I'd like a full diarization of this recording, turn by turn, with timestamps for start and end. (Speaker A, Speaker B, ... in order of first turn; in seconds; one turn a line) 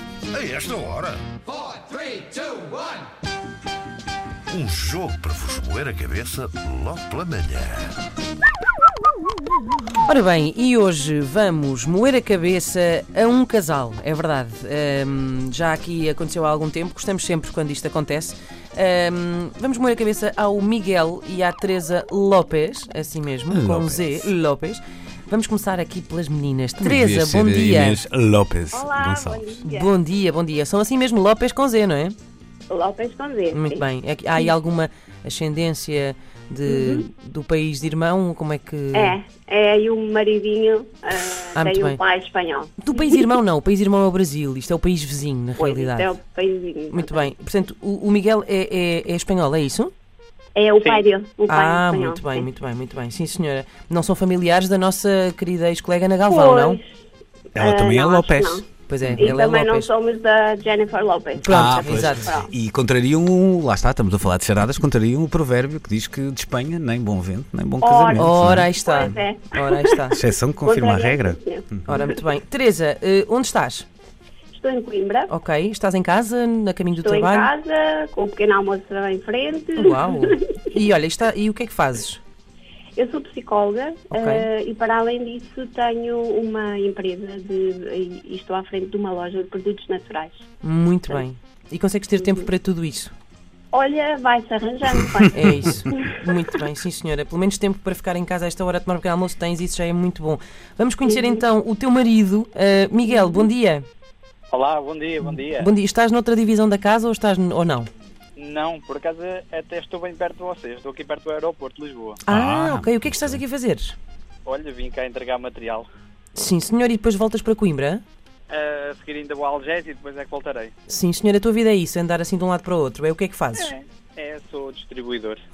Speaker A: 0.3-1.2
Speaker A: 4.5-8.0
Speaker B: 10.0-28.0
Speaker C: 23.5-24.3
Speaker C: 26.8-29.6
Speaker D: 28.7-29.9
Speaker B: 29.6-32.1
Speaker D: 32.7-34.5
Speaker B: 33.5-39.2
Speaker D: 36.6-37.1
Speaker D: 38.9-43.3
Speaker B: 41.5-42.0
Speaker B: 42.8-46.1
Speaker D: 45.6-47.3
Speaker B: 46.9-49.9
Speaker D: 50.5-52.5
Speaker E: 50.8-51.0
Speaker B: 51.5-56.8
Speaker D: 56.2-56.8
Speaker D: 57.5-58.6
Speaker C: 57.5-59.3
Speaker B: 58.9-59.9
Speaker D: 59.2-62.5
Speaker B: 61.4-62.3
Speaker C: 61.5-68.7
Speaker D: 67.8-69.9
Speaker B: 68.1-70.2
Speaker C: 70.1-71.8
Speaker D: 70.6-72.2
Speaker B: 71.9-73.8
Speaker D: 74.5-75.3
Speaker B: 75.3-77.5
Speaker D: 76.9-80.6
Speaker B: 79.8-82.2
Speaker D: 83.0-90.4
Speaker B: 84.1-84.5
Speaker B: 90.6-93.1
Speaker D: 93.7-96.1
Speaker B: 95.3-103.8
Speaker D: 101.0-101.4
Speaker D: 103.2-103.4
Speaker E: 104.5-105.7
Speaker B: 105.5-107.9
Speaker E: 108.4-112.2
Speaker C: 112.3-113.4
Speaker B: 112.3-114.0
Speaker E: 114.5-115.8
Speaker B: 116.3-118.0
Speaker E: 118.5-120.7
Speaker B: 120.9-123.7
Speaker E: 123.6-125.4